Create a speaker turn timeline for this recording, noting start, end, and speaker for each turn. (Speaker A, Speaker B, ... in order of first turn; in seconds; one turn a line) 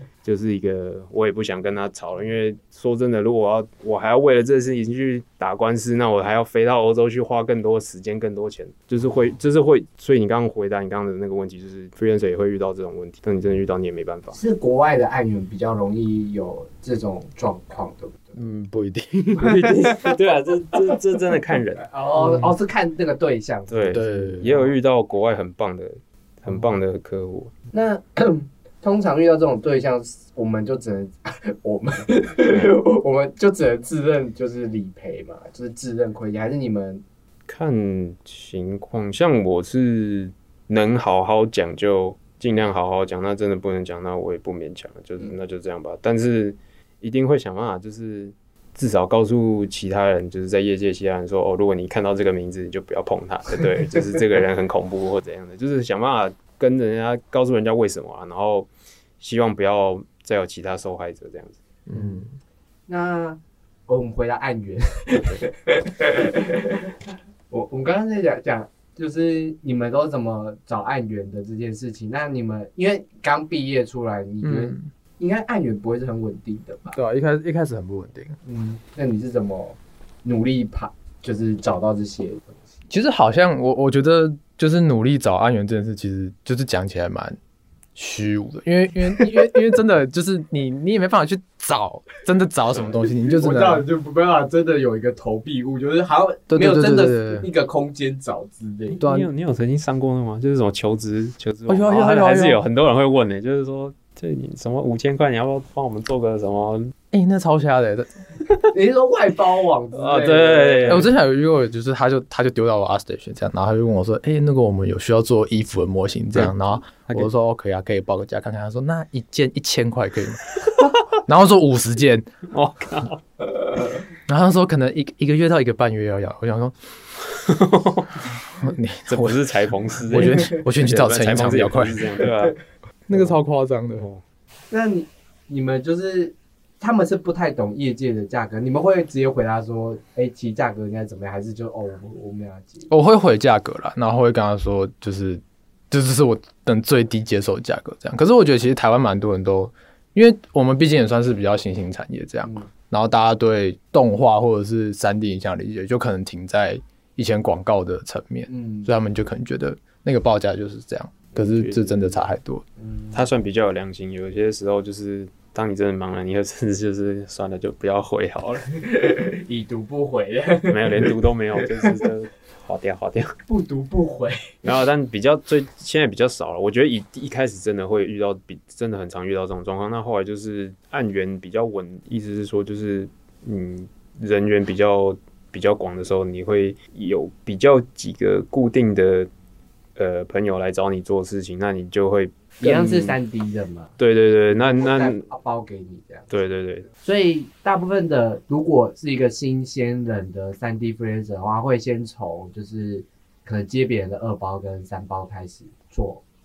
Speaker A: 0.2-14.4
Speaker B: 14.3-18.4
Speaker C: 18.4-19.8
Speaker B: 19.4-20.1
Speaker A: 19.9-21.9
Speaker B: 21.8-24.6
Speaker A: 23.7-27.5
Speaker C: 23.9-24.5
Speaker B: 27.7-37.0
Speaker A: 37.5-58.7
Speaker A: 59.2-61.6
Speaker C: 61.9-62.3
Speaker B: 62.9-66.8
Speaker B: 67.5-77.0
Speaker C: 74.4-74.9
Speaker C: 76.9-78.4
Speaker B: 78.5-82.6
Speaker C: 82.9-87.4
Speaker C: 88.0-93.9
Speaker B: 93.1-99.0
Speaker C: 96.5-97.5
Speaker C: 99.0-99.3
Speaker A: 99.0-106.9
Speaker C: 101.7-102.6
Speaker C: 107.1-108.6
Speaker B: 108.7-111.1
Speaker A: 110.0-111.1
Speaker C: 110.9-120.4
Speaker A: 116.3-117.3
Speaker C: 121.3-122.3
Speaker A: 122.5-123.2
Speaker C: 124.3-126.8
Speaker A: 127.4-128.1
Speaker C: 128.5-129.4
Speaker A: 129.1-132.6
Speaker C: 130.1-132.3
Speaker C: 133.1-134.1
Speaker B: 134.7-142.9
Speaker C: 142.9-162.6
Speaker B: 158.5-158.9
Speaker A: 161.3-162.2
Speaker B: 162.8-163.3
Speaker A: 163.1-168.7
Speaker B: 168.8-171.6
Speaker A: 170.7-173.4
Speaker B: 173.5-174.5
Speaker A: 174.6-189.3
Speaker A: 190.0-193.2
Speaker B: 192.6-194.0
Speaker A: 194.0-195.3
Speaker B: 194.5-196.3
Speaker A: 196.3-196.9
Speaker B: 197.0-206.2